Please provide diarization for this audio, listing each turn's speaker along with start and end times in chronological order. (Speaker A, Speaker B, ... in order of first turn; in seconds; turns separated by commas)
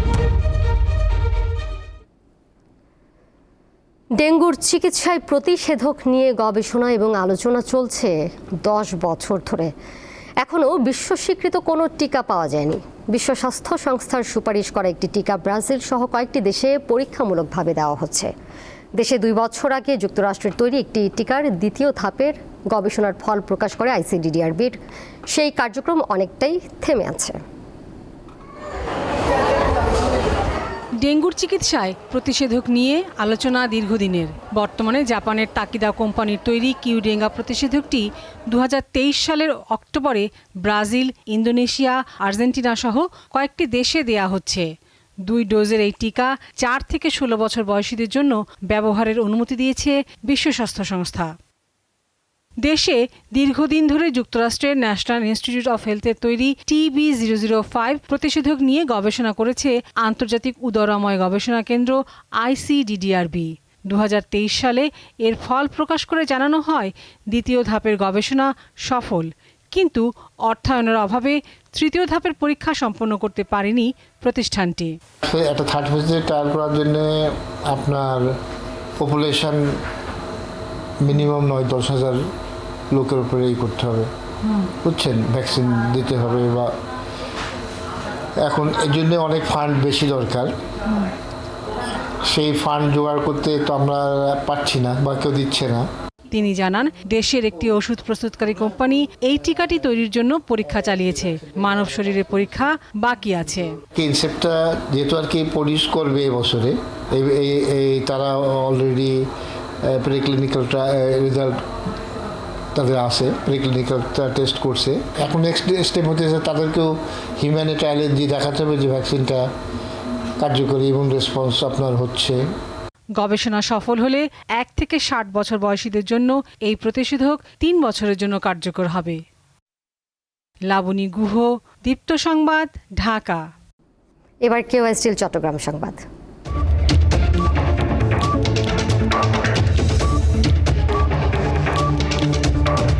Speaker A: 4.2-9.7, Speaker A: 10.4-18.3, Speaker A: 19.0-24.8, Speaker A: 25.3-27.4, Speaker B: 31.0-44.7, Speaker B: 45.3-51.3, Speaker B: 52.6-74.9, Speaker C: 75.2-78.3, Speaker C: 79.0-79.8, Speaker C: 81.0-82.2, Speaker C: 82.9-84.1, Speaker C: 84.8-86.7, Speaker C: 88.4-90.5, Speaker C: 92.3-95.8, Speaker B: 96.3-103.7, Speaker C: 103.9-109.3, Speaker C: 109.8-111.6, Speaker C: 112.7-119.5, Speaker C: 120.4-122.4, Speaker B: 123.2-129.2, Speaker B: 130.7-133.4, Speaker A: 134.4-136.0